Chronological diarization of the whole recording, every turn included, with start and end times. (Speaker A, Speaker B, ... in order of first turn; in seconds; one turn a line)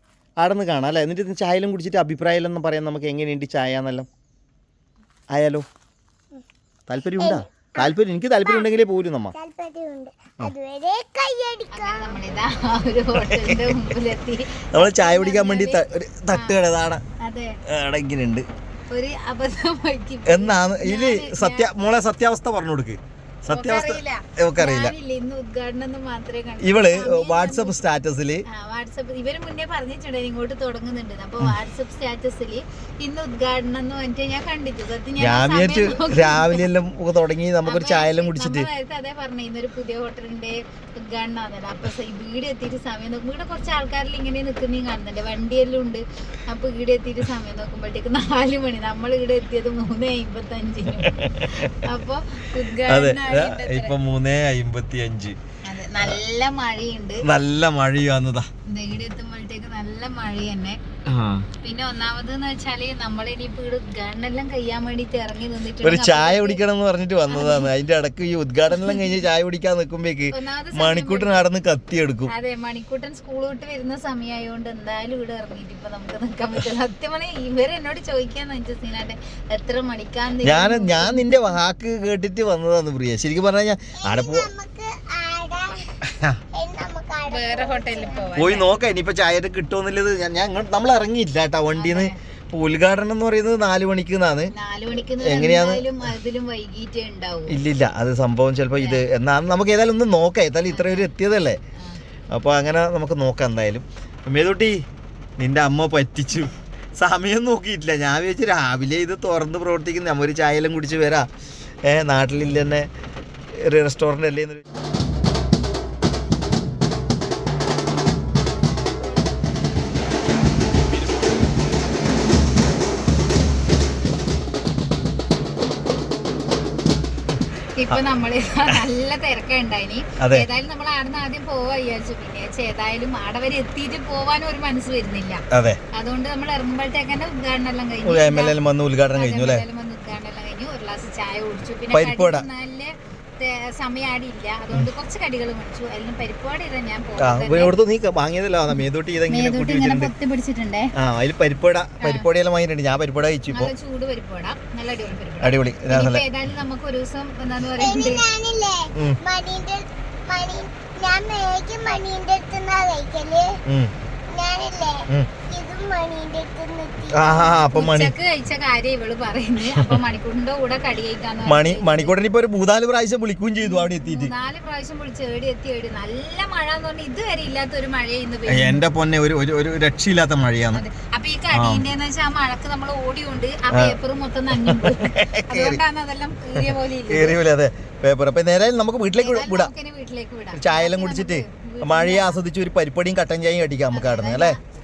Speaker A: 0.4-4.1
Speaker A: 5.3-5.6
Speaker A: 6.9-9.3
Speaker B: 7.2-7.9
Speaker B: 9.3-12.2
Speaker C: 11.7-15.8
Speaker A: 13.1-13.9
Speaker A: 14.7-17.0
Speaker C: 17.2-17.6
Speaker A: 17.7-18.4
Speaker C: 18.9-21.7
Speaker A: 20.2-24.9
Speaker C: 23.5-27.8
Speaker A: 26.6-28.4
Speaker C: 28.5-36.6
Speaker A: 35.2-38.7
Speaker C: 37.6-53.9
Speaker A: 50.9-51.9
Speaker A: 52.9-55.4
Speaker C: 55.6-57.2
Speaker A: 57.2-58.5
Speaker C: 58.7-60.8
Speaker A: 61.1-61.5
Speaker C: 61.6-66.6
Speaker A: 65.8-72.3
Speaker C: 67.3-67.7
Speaker C: 70.3-71.4
Speaker C: 72.3-81.6
Speaker A: 80.4-84.5
Speaker B: 84.0-85.8
Speaker B: 86.5-88.4
Speaker C: 87.3-88.7
Speaker A: 88.3-94.5
Speaker C: 91.7-92.2
Speaker C: 94.5-97.6
Speaker A: 95.2-95.9
Speaker A: 97.5-101.6
Speaker C: 98.8-99.0
Speaker C: 100.7-101.1
Speaker A: 102.3-104.8
Speaker A: 105.4-111.3
Speaker A: 111.8-112.9
Speaker A: 113.5-114.6
Speaker C: 127.8-138.6
Speaker A: 130.2-130.5
Speaker A: 135.5-135.8
Speaker A: 138.0-139.7
Speaker C: 139.2-147.7
Speaker A: 141.9-142.5
Speaker A: 147.2-150.1
Speaker C: 148.7-150.9
Speaker A: 151.0-153.7
Speaker C: 152.0-152.2
Speaker C: 153.5-158.2
Speaker A: 155.4-156.2
Speaker B: 157.7-163.6
Speaker A: 163.7-163.9
Speaker B: 164.3-167.5
Speaker A: 167.1-168.1
Speaker C: 167.7-172.1
Speaker A: 169.7-170.0
Speaker A: 171.4-174.3
Speaker C: 173.6-178.8
Speaker A: 178.5-180.8
Speaker C: 180.7-187.3
Speaker A: 181.5-181.8
Speaker A: 183.7-184.0
Speaker A: 184.5-185.8
Speaker A: 186.6-189.7
Speaker C: 189.2-192.4
Speaker A: 190.6-194.6
Speaker C: 193.9-194.6